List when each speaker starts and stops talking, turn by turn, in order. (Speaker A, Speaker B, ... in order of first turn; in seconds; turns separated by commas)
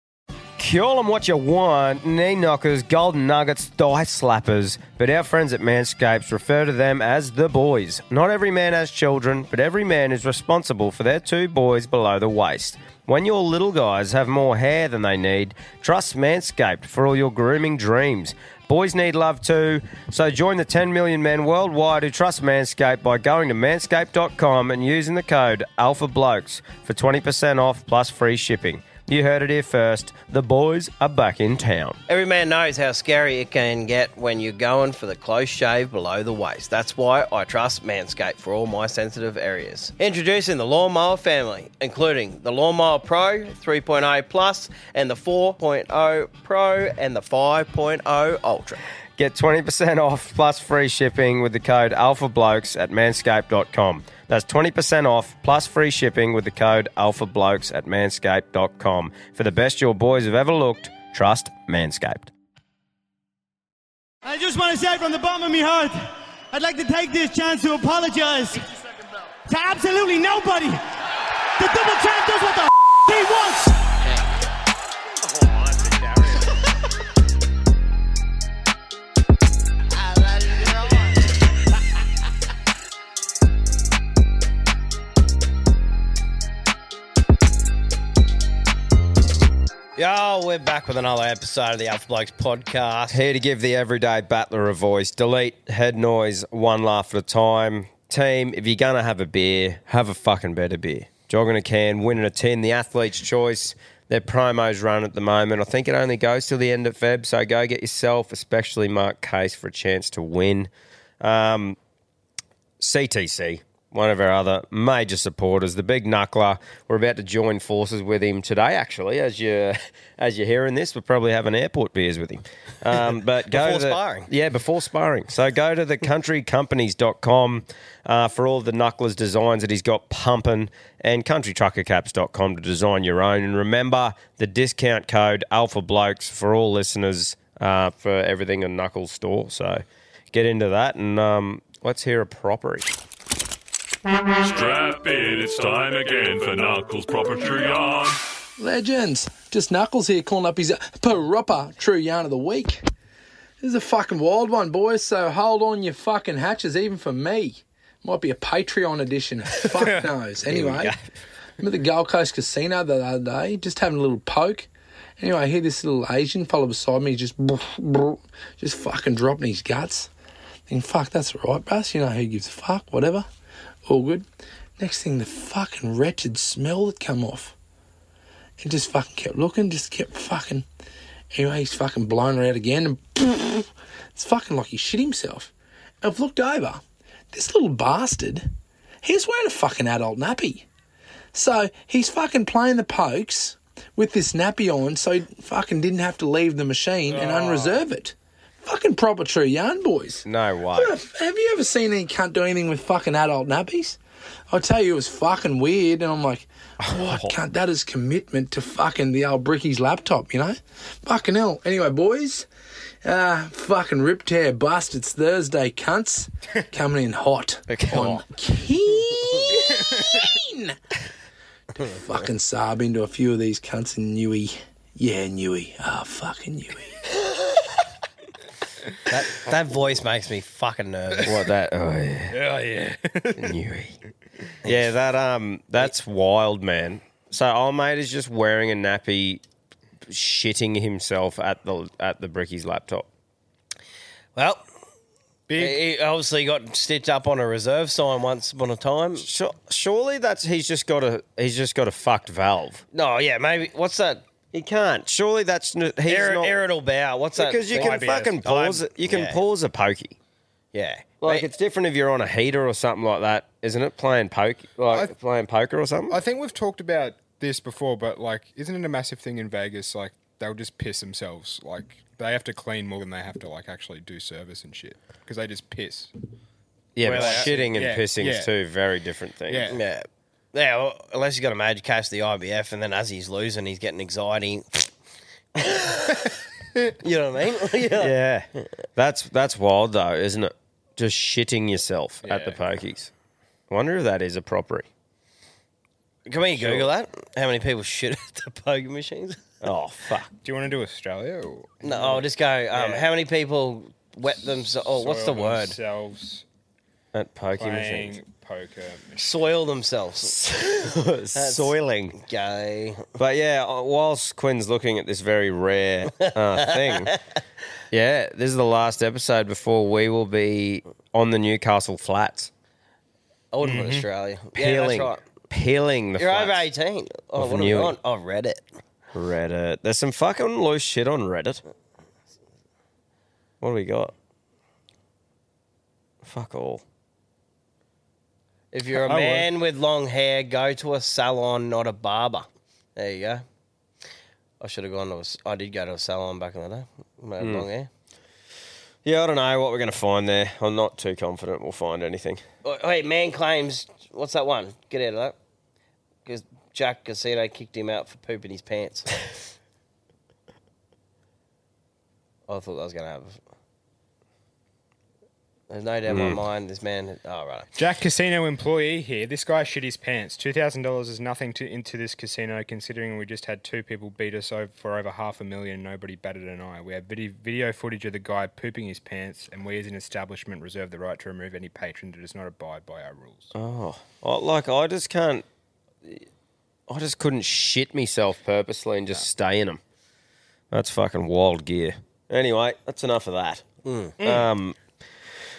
Speaker A: 0.6-32.0, Speaker B: 32.1-48.8, Speaker A: 49.2-62.3, Speaker C: 64.2-68.6, Speaker C: 69.5-70.8, Speaker C: 71.6-73.8, Speaker A: 75.7-76.3, Speaker D: 75.9-76.4, Speaker B: 90.0-93.2, Speaker A: 93.1-110.7, Speaker A: 111.2-111.8, Speaker A: 112.8-142.9, Speaker B: 123.5-124.3, Speaker E: 144.4-148.2, Speaker F: 148.6-152.8, Speaker F: 153.6-160.9, Speaker A: 160.5-161.0, Speaker F: 161.6-164.7, Speaker F: 165.2-170.1, Speaker F: 170.7-173.3, Speaker F: 173.9-174.3, Speaker F: 174.8-177.5, Speaker F: 178.6-180.7, Speaker F: 181.3-186.8, Speaker F: 187.3-188.5, Speaker F: 189.0-190.7, Speaker F: 191.3-204.0, Speaker D: 197.1-197.8, Speaker A: 200.2-200.9, Speaker F: 204.5-212.5, Speaker A: 206.8-207.3, Speaker F: 213.0-220.8, Speaker A: 217.7-218.2, Speaker F: 221.8-227.0, Speaker B: 229.1-231.4, Speaker A: 231.2-232.4, Speaker D: 232.3-233.5, Speaker A: 233.3-234.0, Speaker A: 234.6-239.4, Speaker A: 240.1-243.1, Speaker B: 244.4-244.6, Speaker D: 245.5-245.8, Speaker B: 245.6-249.3, Speaker A: 249.2-252.8, Speaker B: 252.9-254.2, Speaker A: 254.5-256.6, Speaker B: 256.1-259.4, Speaker A: 257.4-260.1, Speaker D: 257.7-258.4, Speaker B: 260.7-261.5, Speaker A: 261.2-266.2, Speaker D: 266.1-276.1, Speaker A: 277.0-279.7, Speaker B: 277.0-277.7, Speaker D: 277.0-278.5, Speaker D: 279.5-279.8, Speaker B: 279.7-284.9, Speaker B: 287.0-288.1, Speaker A: 288.0-293.1, Speaker D: 292.2-292.6, Speaker A: 293.7-294.9, Speaker B: 296.3-299.4, Speaker A: 296.5-296.9, Speaker A: 299.6-300.3, Speaker D: 300.4-303.1, Speaker B: 301.8-305.8, Speaker D: 304.9-306.4, Speaker A: 307.1-308.2, Speaker D: 307.6-309.3, Speaker B: 309.2-310.4, Speaker A: 310.2-312.2, Speaker B: 311.4-313.1, Speaker A: 313.2-317.1, Speaker B: 316.2-317.1, Speaker A: 317.9-322.5, Speaker B: 323.5-325.2, Speaker D: 323.6-324.0, Speaker A: 324.5-326.6, Speaker B: 326.2-328.7, Speaker A: 327.4-328.0, Speaker A: 329.1-331.6, Speaker A: 333.6-334.1, Speaker A: 336.2-336.8, Speaker B: 338.7-343.4, Speaker D: 338.9-339.5, Speaker B: 344.6-347.9, Speaker A: 347.4-347.6, Speaker A: 349.1-352.4, Speaker B: 352.6-355.4, Speaker B: 356.2-359.1, Speaker B: 362.5-363.4, Speaker B: 365.7-367.7, Speaker A: 366.1-366.4, Speaker D: 367.8-383.5, Speaker A: 383.6-385.4, Speaker A: 386.9-389.8, Speaker A: 390.7-393.6, Speaker B: 393.9-394.2, Speaker A: 394.2-394.8